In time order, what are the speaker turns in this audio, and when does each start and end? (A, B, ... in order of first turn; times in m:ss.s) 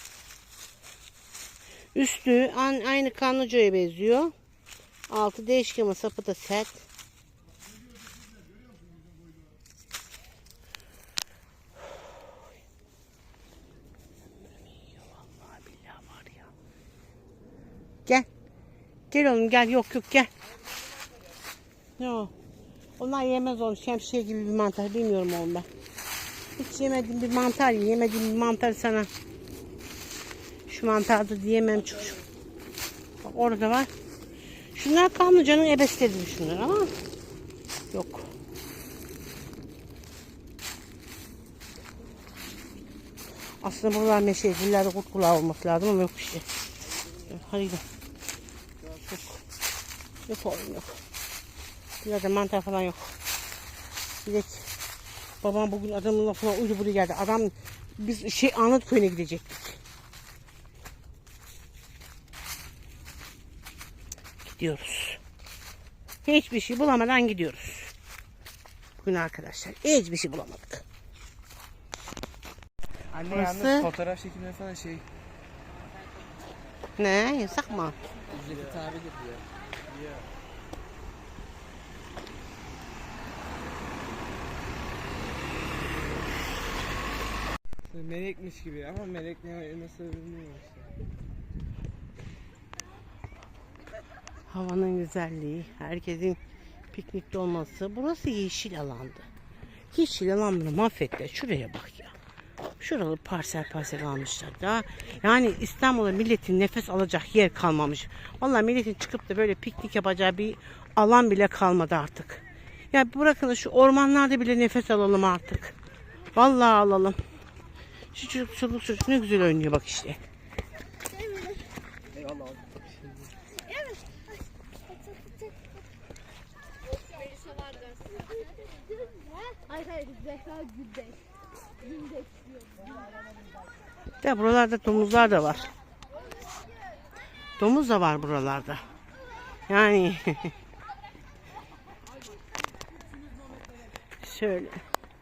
0:02.0-0:04.3 A
0:05.1-0:06.8 A
0:14.4-0:16.5 A
0:19.1-0:20.3 A
0:22.0-0:22.3 A
0:23.0-0:25.7 A
0:26.6-0:29.1 A
0:30.7-0:32.2 A
0:33.2-0:33.9 A
0:34.7-0:36.9 A
0:37.9-0:38.3 A
0:43.6-0:46.5 A
0:47.3-0:47.8 A
0:48.8-0:49.2 B
0:50.3-0:51.0 A
0:52.0-0:53.1 A
0:54.2-0:54.7 A
0:55.4-0:59.8 A
1:04.4-1:05.2 A
1:06.2-1:07.9 A
1:09.0-1:10.8 A
1:13.1-1:15.0 B
1:13.2-1:13.9 A
1:17.0-1:18.0 A
1:18.3-1:20.2 B
1:27.9-1:30.9 B
1:34.5-1:36.4 A
1:36.9-1:39.3 A
1:39.9-1:42.2 A
1:42.8-1:55.8 A
1:56.4-1:57.2 A
1:58.1-2:00.2 A
2:01.1-2:01.6 C
2:02.1-2:03.3 B
2:03.7-2:04.2 C
2:04.9-2:05.6 C
2:07.2-2:11.2 C
2:11.9-2:12.2 C
2:14.2-2:15.7 A
2:17.6-2:18.8 A
2:19.7-2:20.5 A
2:24.2-2:24.8 A